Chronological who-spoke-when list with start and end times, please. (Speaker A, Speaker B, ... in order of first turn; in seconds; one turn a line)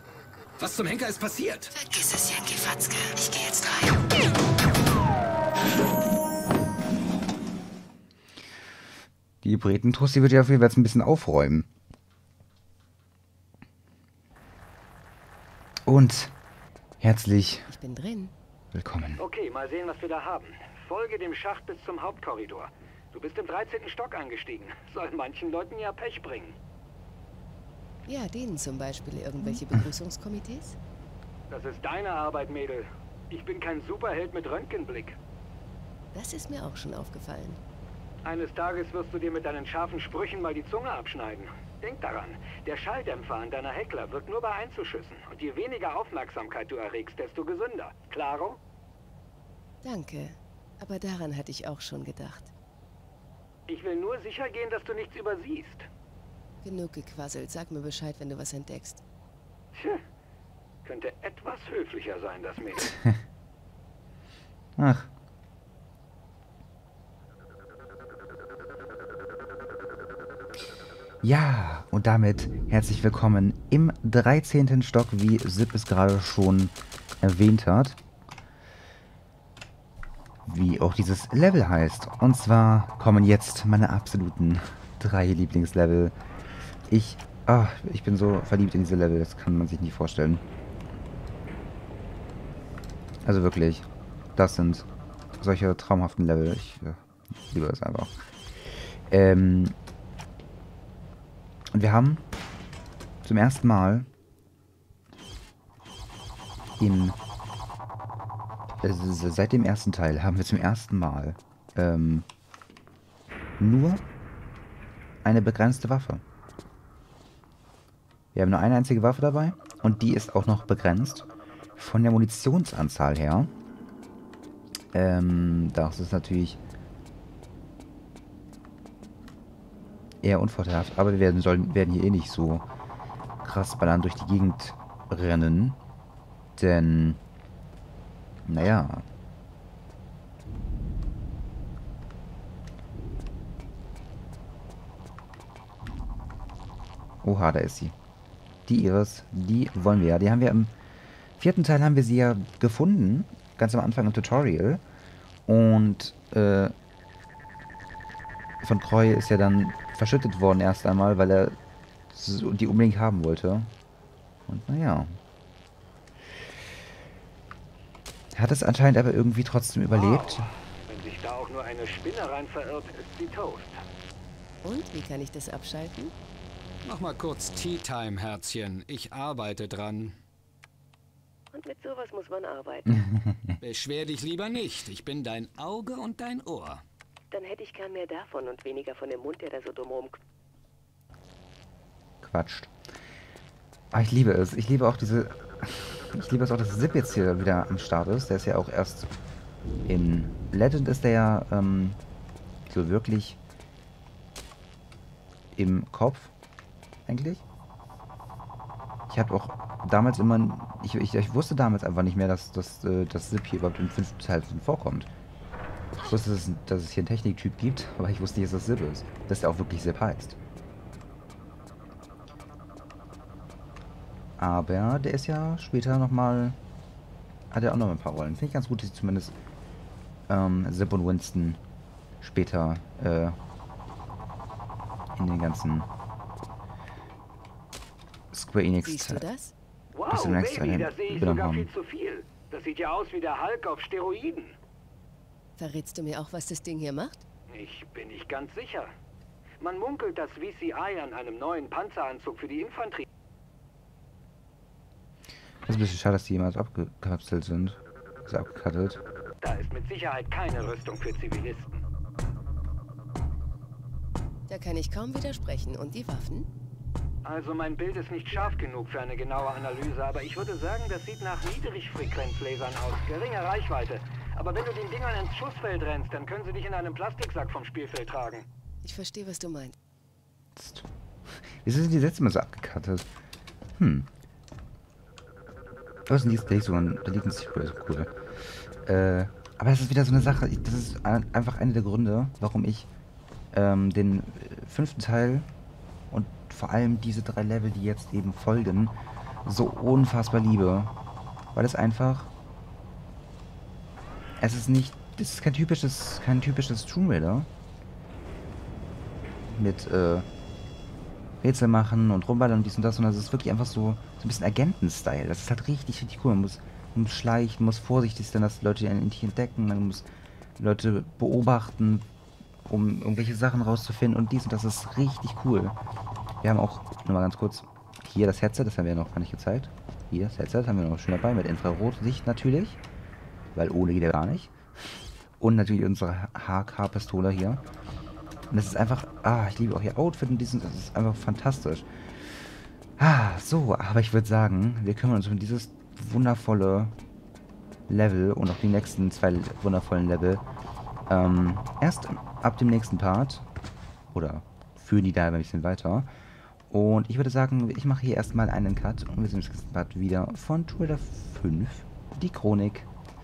Speaker A: 0.6-1.7
Speaker B: 1.7-4.0
Speaker C: 9.4-11.7
Speaker C: 15.9-16.3
Speaker C: 17.0-17.7
Speaker B: 17.7-18.3
Speaker C: 18.7-19.2
Speaker D: 19.2-26.6
Speaker B: 28.0-30.8
Speaker D: 31.5-35.2
Speaker B: 36.1-37.6
Speaker D: 38.2-48.6
Speaker B: 49.8-52.5
Speaker D: 53.7-55.9
Speaker B: 56.6-59.0
Speaker D: 59.7-60.0
Speaker D: 60.8-62.9
Speaker C: 64.8-65.1
Speaker C: 71.2-78.0
Speaker C: 80.5-86.1
Speaker C: 86.9-90.4
Speaker C: 93.2-94.9
Speaker C: 95.4-98.2
Speaker C: 99.1-99.8
Speaker C: 101.7-102.2
Speaker C: 103.2-104.1
Speaker C: 106.8-107.2
Speaker C: 108.8-112.2
Speaker C: 113.6-114.0
Speaker C: 115.2-116.2
Speaker C: 118.3-123.5
Speaker C: 124.9-126.6
Speaker C: 130.2-132.7
Speaker C: 133.4-135.8
Speaker C: 136.6-137.2
Speaker C: 138.4-139.1
Speaker C: 147.2-147.9
Speaker C: 148.7-150.7
Speaker C: 151.4-154.8
Speaker C: 155.4-156.7
Speaker C: 158.6-161.6
Speaker C: 162.1-163.7
Speaker C: 164.5-165.2
Speaker C: 168.3-170.5
Speaker D: 169.9-173.8
Speaker B: 174.6-176.1
Speaker A: 176.8-180.2
Speaker B: 181.5-183.1
Speaker C: 182.9-183.6
Speaker A: 183.6-186.8
Speaker B: 187.3-190.2
Speaker C: 192.2-192.7
Speaker C: 193.9-199.1
Speaker C: 199.8-202.0
Speaker C: 202.7-203.4
Speaker C: 205.5-206.3
Speaker C: 207.1-207.4
Speaker C: 209.1-215.1
Speaker C: 216.0-220.4
Speaker C: 224.4-226.6
Speaker C: 227.5-229.3
Speaker C: 230.3-231.6
Speaker C: 232.2-233.4
Speaker C: 235.2-235.9
Speaker C: 238.3-239.2
Speaker B: 238.8-239.5
Speaker D: 239.9-244.6
Speaker C: 240.1-241.7
Speaker B: 245.6-247.2
Speaker D: 247.5-248.9
Speaker D: 249.6-253.0
Speaker C: 255.7-259.0
Speaker D: 259.4-261.8
Speaker B: 264.5-266.5
Speaker D: 267.2-278.5
Speaker B: 278.8-279.7
Speaker C: 280.6-283.1
Speaker C: 283.8-284.1
Speaker C: 286.1-288.1
Speaker C: 288.8-292.9
Speaker C: 293.5-295.5
Speaker C: 296.1-298.9
Speaker C: 299.4-300.9
Speaker C: 301.5-302.3
Speaker C: 304.4-307.5
Speaker C: 309.5-310.3
Speaker C: 311.4-320.1
Speaker C: 320.6-322.1
Speaker C: 322.7-325.7
Speaker C: 326.4-332.8
Speaker C: 333.5-337.6
Speaker C: 338.5-342.3
Speaker C: 343.0-346.9
Speaker C: 347.9-350.4
Speaker C: 351.1-353.4
Speaker C: 354.1-356.1
Speaker C: 356.7-362.9